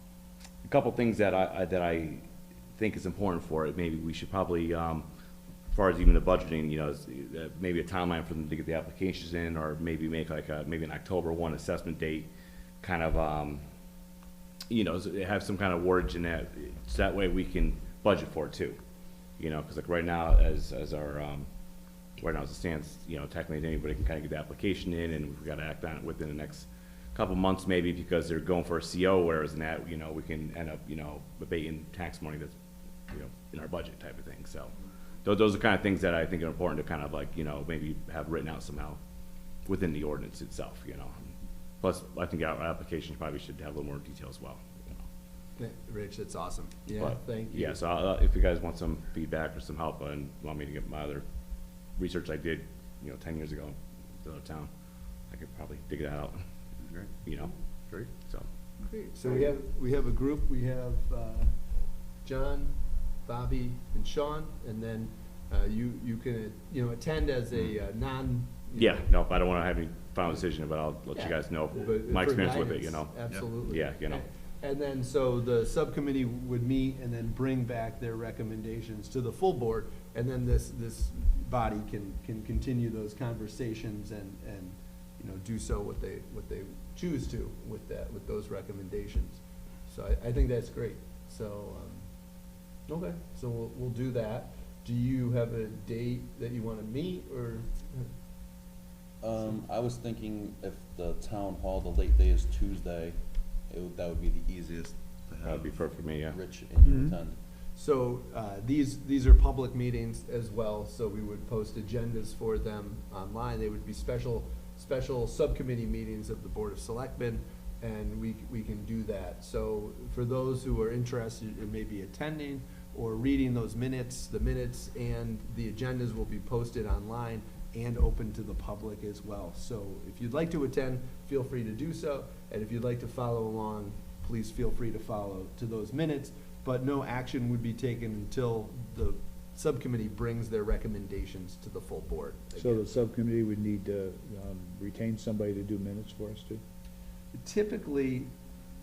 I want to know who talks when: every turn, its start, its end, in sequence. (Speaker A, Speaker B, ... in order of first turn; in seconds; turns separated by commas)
Speaker A: 0.7-5.1, Speaker A: 5.7-12.3, Speaker A: 12.8-13.6, Speaker A: 14.7-18.8, Speaker A: 19.4-21.5, Speaker A: 22.2-32.5, Speaker A: 33.1-34.7, Speaker A: 35.2-39.0, Speaker A: 39.7-45.0, Speaker B: 45.6-47.8, Speaker A: 47.0-51.2, Speaker A: 52.0-54.7, Speaker A: 55.3-56.4, Speaker C: 56.8-57.1, Speaker A: 57.2-57.5, Speaker A: 58.1-58.5, Speaker B: 59.1-61.5, Speaker B: 62.2-62.7, Speaker B: 63.2-69.1, Speaker A: 68.8-74.2, Speaker B: 71.1-92.1, Speaker B: 92.9-98.1, Speaker C: 99.2-107.4, Speaker A: 105.4-106.4, Speaker D: 106.8-107.2, Speaker B: 107.8-142.9, Speaker D: 142.6-146.6, Speaker B: 147.3-148.3